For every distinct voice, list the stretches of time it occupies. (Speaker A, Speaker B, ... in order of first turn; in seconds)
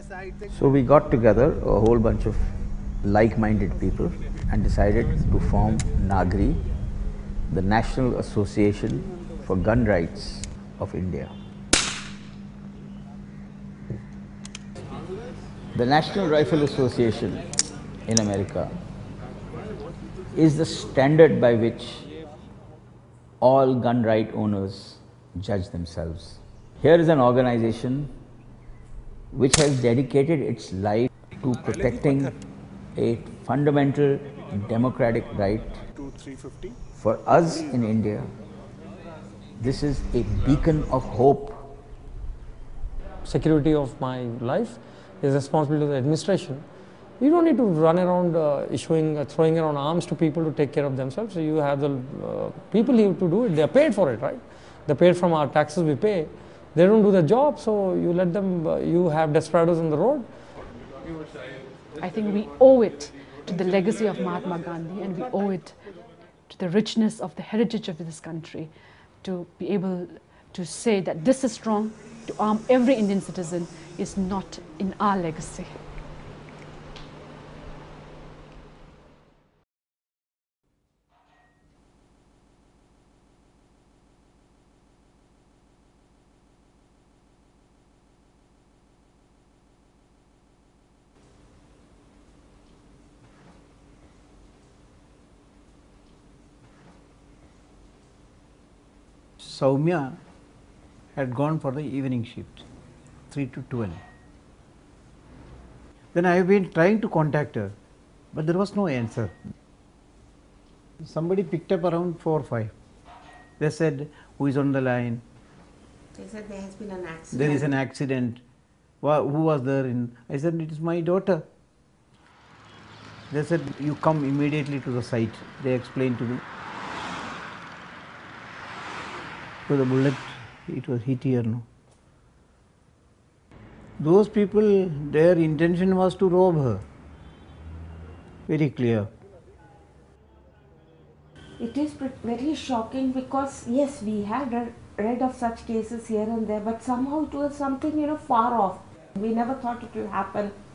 Speaker A: 0.5-6.6, 7.5-11.3, 15.7-17.4, 18.1-18.8, 20.3-22.0, 23.4-28.1, 29.3-32.3, 33.0-35.8, 37.0-38.3, 39.6-41.6
Speaker B: 43.2-46.6, 47.2-60.3
Speaker C: 62.0-65.8, 66.5-68.7, 69.2-75.7
Speaker D: 99.4-100.2, 101.1-102.6, 103.3-104.0, 106.1-107.7, 108.3-109.3, 111.0-112.7, 113.6-115.2, 117.3-118.4, 119.0-121.4, 123.3-126.4, 129.7-131.6, 134.0-136.8, 138.5-139.1
Speaker E: 116.1-117.7, 141.6-150.6